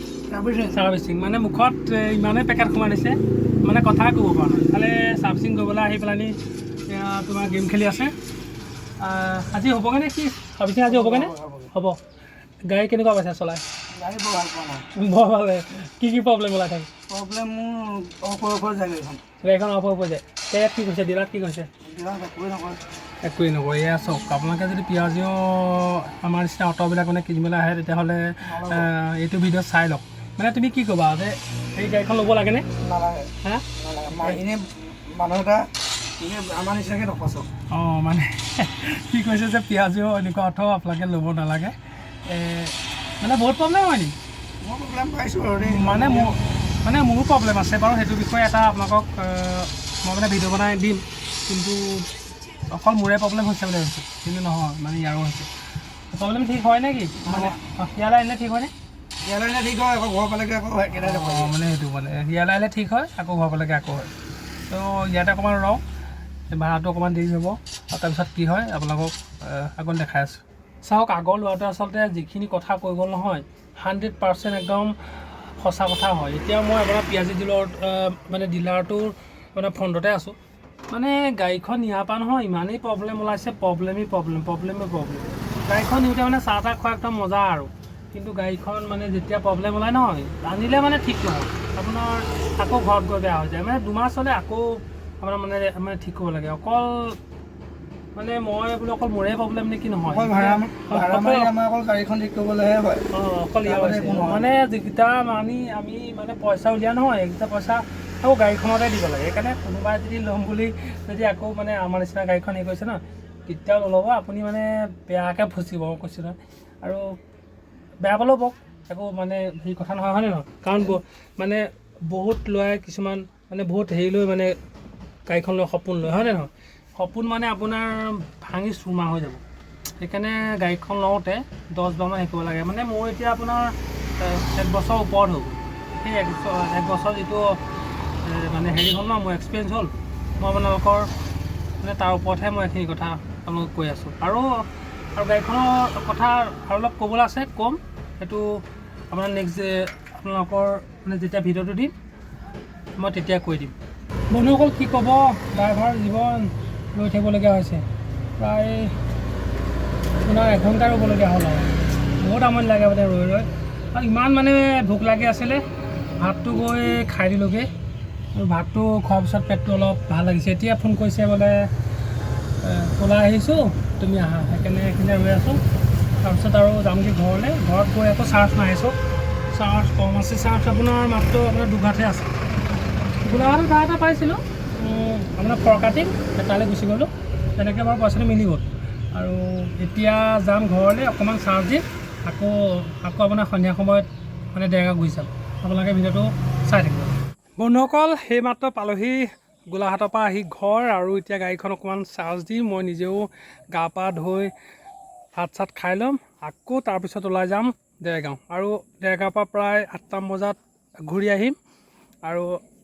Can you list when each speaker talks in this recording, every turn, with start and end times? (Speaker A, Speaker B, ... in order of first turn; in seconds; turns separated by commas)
Speaker A: 0.3-0.8, Speaker B: 0.7-6.3, Speaker B: 6.9-8.1, Speaker B: 9.0-12.0, Speaker A: 10.8-11.7, Speaker B: 12.7-13.6, Speaker A: 13.9-14.8, Speaker B: 14.9-16.9, Speaker A: 17.1-19.2, Speaker B: 19.4-21.7, Speaker A: 21.8-22.8, Speaker B: 23.2-32.7, Speaker A: 28.4-28.9, Speaker A: 32.8-37.5, Speaker B: 37.7-44.1, Speaker A: 44.6-46.4, Speaker B: 45.6-55.5, Speaker B: 56.1-58.7, Speaker A: 57.2-57.5, Speaker A: 59.2-61.5, Speaker B: 60.9-64.1, Speaker B: 64.7-65.8, Speaker B: 66.5-80.3, Speaker B: 80.9-97.2, Speaker B: 98.1-101.5, Speaker A: 100.1-103.0, Speaker B: 103.1-117.0, Speaker A: 103.6-104.5, Speaker B: 118.0-124.5, Speaker B: 125.3-129.4, Speaker B: 130.0-137.6, Speaker B: 138.2-141.1, Speaker B: 141.8-144.6, Speaker B: 145.1-151.9, Speaker B: 153.0-153.8, Speaker B: 154.3-157.8, Speaker B: 158.4-158.9, Speaker B: 160.2-165.6, Speaker B: 166.2-167.7, Speaker B: 168.3-171.7, Speaker B: 172.6-175.6, Speaker B: 176.2-178.9, Speaker B: 179.5-182.3, Speaker B: 183.2-204.5, Speaker B: 205.4-211.6, Speaker B: 212.3-212.6